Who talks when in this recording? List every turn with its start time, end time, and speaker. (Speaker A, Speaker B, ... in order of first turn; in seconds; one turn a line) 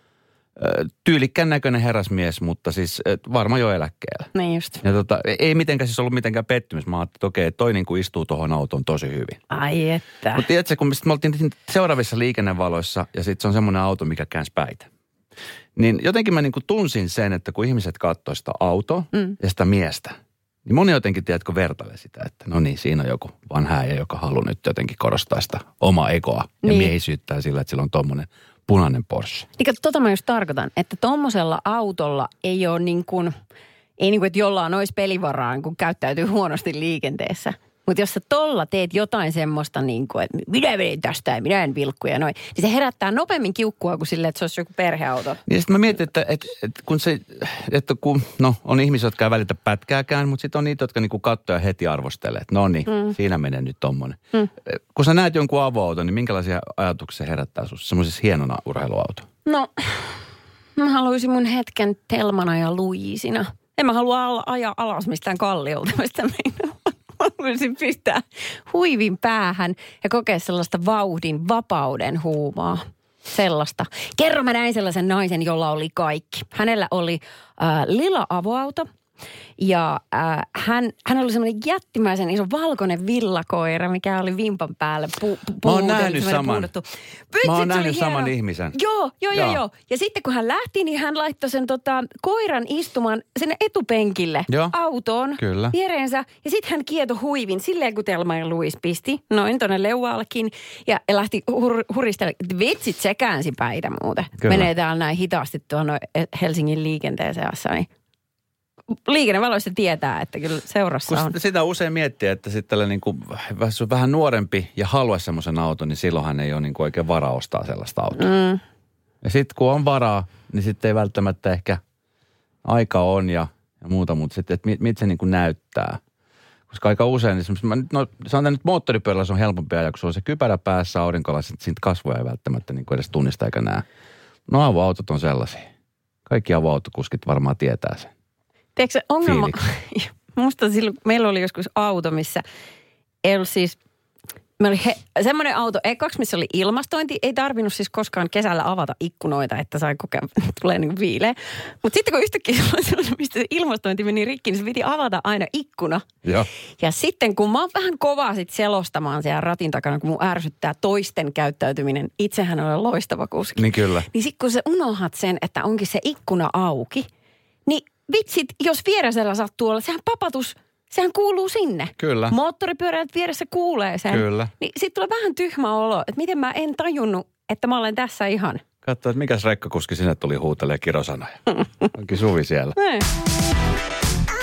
Speaker A: 0.6-4.3
Speaker B: 4.3-4.8
Speaker A: 4.8-9.4
Speaker B: 9.5-10.5
Speaker A: 10.3-14.9
Speaker A: 15.8-20.1
Speaker A: 20.7-29.5
Speaker B: 26.6-26.9
Speaker B: 29.6-33.3
Speaker B: 34.0-45.4
Speaker A: 45.5-59.3
Speaker B: 52.9-53.2
Speaker B: 59.5-60.2
Speaker B: 60.8-78.9
Speaker B: 79.6-107.9
Speaker A: 85.6-86.7
Speaker A: 87.4-88.8
Speaker A: 89.3-89.6
Speaker A: 94.5-94.7
Speaker A: 95.4-95.7
Speaker A: 104.4-104.7
Speaker B: 108.9-111.3
Speaker A: 111.1-118.3
Speaker B: 118.2-118.6
Speaker A: 119.2-121.8
Speaker A: 122.6-126.0
Speaker A: 126.7-133.8
Speaker A: 134.5-135.7
Speaker A: 136.3-138.1
Speaker B: 138.8-142.4
Speaker A: 139.2-139.6
Speaker B: 143.2-143.8
Speaker B: 144.6-156.1
Speaker B: 156.8-167.1
Speaker A: 163.6-164.1
Speaker B: 167.7-178.6
Speaker A: 172.0-172.4
Speaker A: 174.1-174.5
Speaker A: 178.8-182.8
Speaker B: 182.8-183.1